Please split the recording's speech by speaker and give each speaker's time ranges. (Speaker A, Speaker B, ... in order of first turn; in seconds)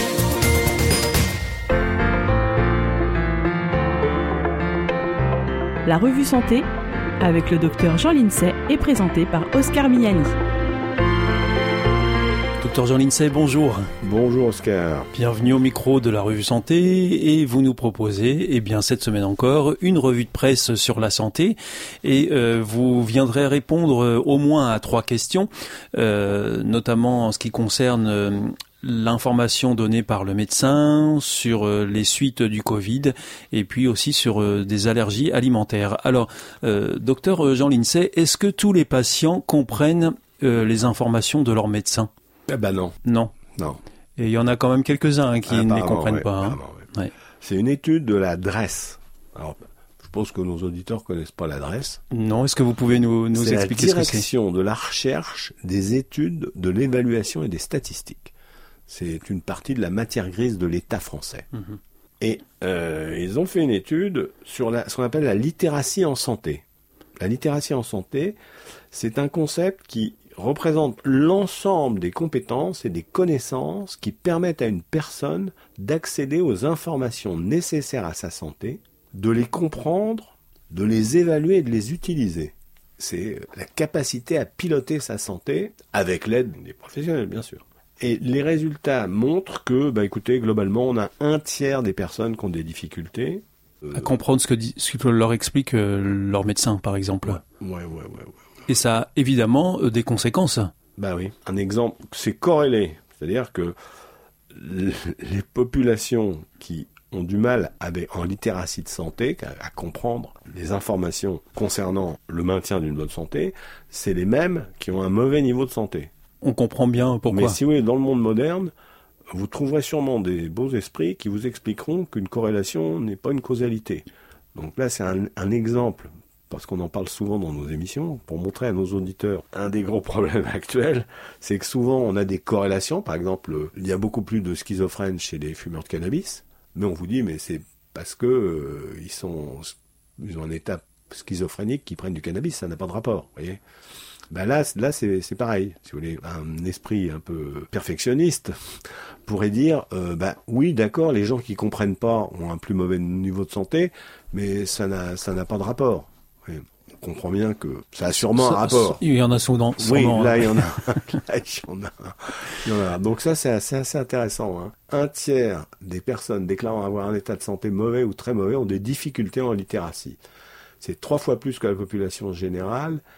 Speaker A: 5.8-6.7, 7.2-10.3
Speaker B: 12.6-13.9, 15.1-42.1, 43.0-43.3, 44.2-47.1, 52.1-54.2, 93.9-97.4, 98.7-100.7, 116.4-117.6, 158.4-160.6
Speaker C: 14.0-15.1, 42.5-42.9, 43.5-43.8, 45.5-46.8, 47.4-52.0, 53.3-58.3, 58.9-61.5, 62.2-66.6, 67.2-68.3, 68.9-94.0, 97.3-98.3, 101.0-103.8, 104.5-116.1, 117.3-118.7, 119.3-143.6, 144.3-148.5, 149.2-159.0, 159.8-170.2, 170.8-173.0